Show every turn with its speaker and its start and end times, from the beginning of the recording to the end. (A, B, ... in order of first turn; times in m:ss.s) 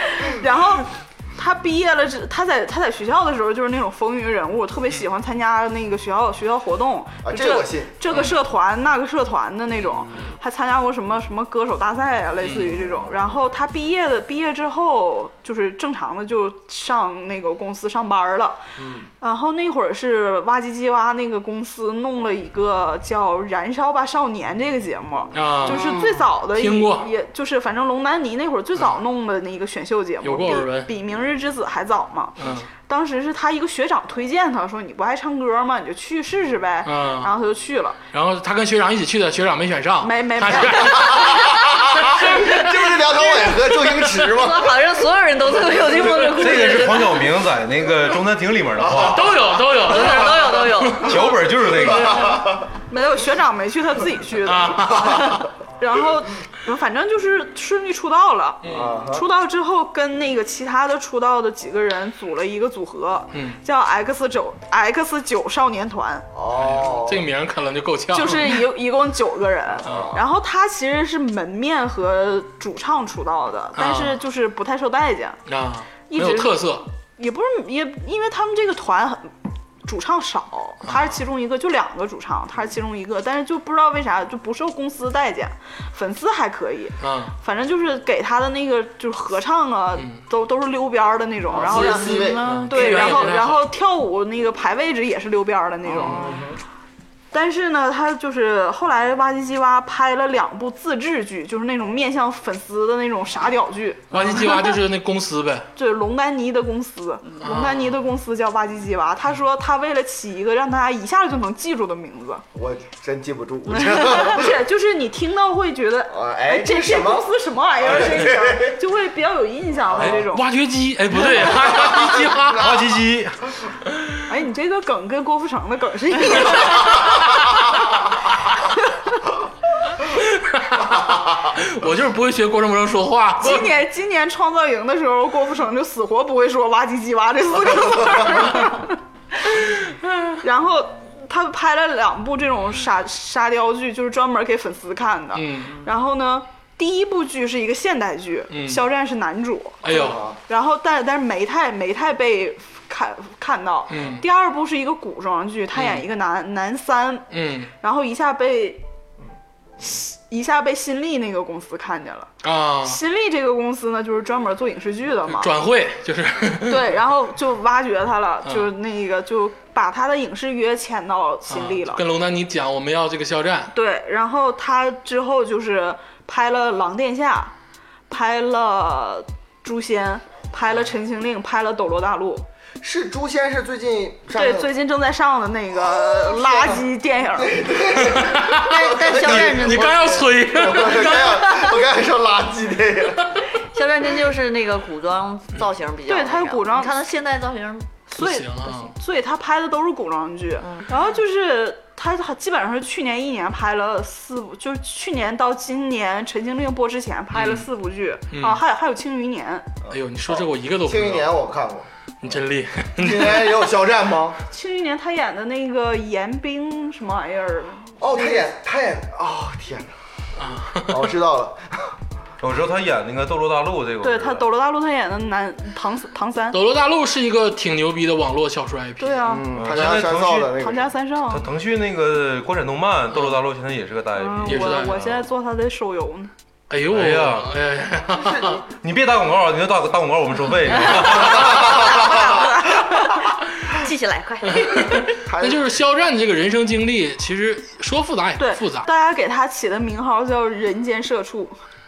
0:00.2-0:18.6 A
0:07.2-0:07.9 B
0:08.1-0:08.4 C
0:12.4-0:12.8 C
0:18.8-0:19.0 B
0:19.2-0:38.0 A
0:25.3-0:27.1 C
0:30.2-0:30.9 C
0:32.4-0:32.7 C
0:36.8-0:37.3 C
0:38.1-0:44.3 C
0:40.0-0:41.2 A
0:41.1-0:44.8 B
0:44.3-0:47.4 D
0:45.7-0:46.4 B
0:46.4-0:49.3 E
0:49.0-0:51.2 C
0:49.8-0:51.3 D
0:51.0-0:52.4 E
0:51.8-0:52.6 B
0:52.8-1:06.3 A
0:54.4-0:55.5 C
0:58.6-0:59.0 C
0:58.7-0:59.2 B
1:06.3-1:07.3 B
1:06.5-1:08.6 C
1:08.1-1:15.4 A
1:09.8-1:10.2 B
1:09.8-1:10.2 C
1:13.8-1:14.2 C
1:15.5-1:16.8 C
1:16.1-1:16.6 A
1:17.2-1:19.3 A
1:19.8-1:36.4 A
1:20.8-1:21.2 C
1:27.0-1:27.3 C
1:31.5-1:32.4 B
1:31.7-1:33.6 C
1:32.7-1:33.1 D
1:35.9-1:36.6 B
1:37.3-1:44.8 A
1:44.1-1:45.7 C
1:45.8-1:52.4 A
1:47.4-1:47.9 C
1:52.5-1:54.5 B
1:53.7-2:00.4 A
1:56.1-1:57.3 B
1:57.8-1:58.8 B
1:59.9-2:00.2 B
2:00.0-2:02.7 C
2:02.5-2:03.4 E
2:04.3-2:07.0 A
2:08.8-2:09.1 A
2:10.0-2:13.8 C
2:13.4-2:19.0 A
2:20.4-2:37.3 A
2:25.3-2:25.7 C
2:28.5-2:28.8 C
2:29.8-2:30.2 C
2:29.9-2:30.4 B
2:33.9-2:34.2 C
2:35.7-2:36.0 C
2:37.3-2:37.7 C
2:37.8-2:38.8 A
2:39.8-2:42.3 A
2:42.4-2:43.0 C
2:42.8-2:45.6 A
2:45.4-2:46.9 C
2:46.6-2:52.0 A
2:51.5-2:53.7 C
2:53.7-2:57.5 A
2:58.1-3:02.4 A
3:02.8-3:04.7 B
3:04.4-3:07.6 A
3:05.8-3:06.8 B
3:07.4-3:10.0 B
3:08.0-3:08.7 C
3:08.5-3:10.8 D
3:09.2-3:11.6 C
3:10.5-3:13.4 B
3:13.5-3:18.0 D
3:16.1-3:16.9 A
3:18.1-3:29.7 A
3:18.2-3:18.9 C
3:20.6-3:20.9 D
3:27.3-3:27.7 C
3:28.3-3:28.6 C
3:29.8-3:31.9 B
3:29.9-3:31.3 C
3:32.2-3:33.6 C
3:33.0-3:34.4 B
3:34.5-3:38.4 A
3:38.0-3:39.9 B
3:40.4-3:41.1 C
3:40.9-3:41.9 B
3:42.4-3:44.4 E
3:44.0-3:46.6 A
3:46.5-3:49.2 C
3:49.0-3:49.4 A
3:49.3-3:50.8 B
3:49.5-3:50.5 E
3:50.5-3:51.4 A
3:51.3-3:55.2 E
3:54.2-3:56.3 A
3:54.4-3:55.0 C
3:56.7-3:58.6 C
3:56.9-3:57.5 E
3:58.2-3:58.5 B
3:58.7-4:02.1 E
4:01.6-4:05.0 D
4:01.8-4:03.2 A
4:04.5-4:08.9 C
4:05.2-4:05.6 B
4:08.4-4:11.6 A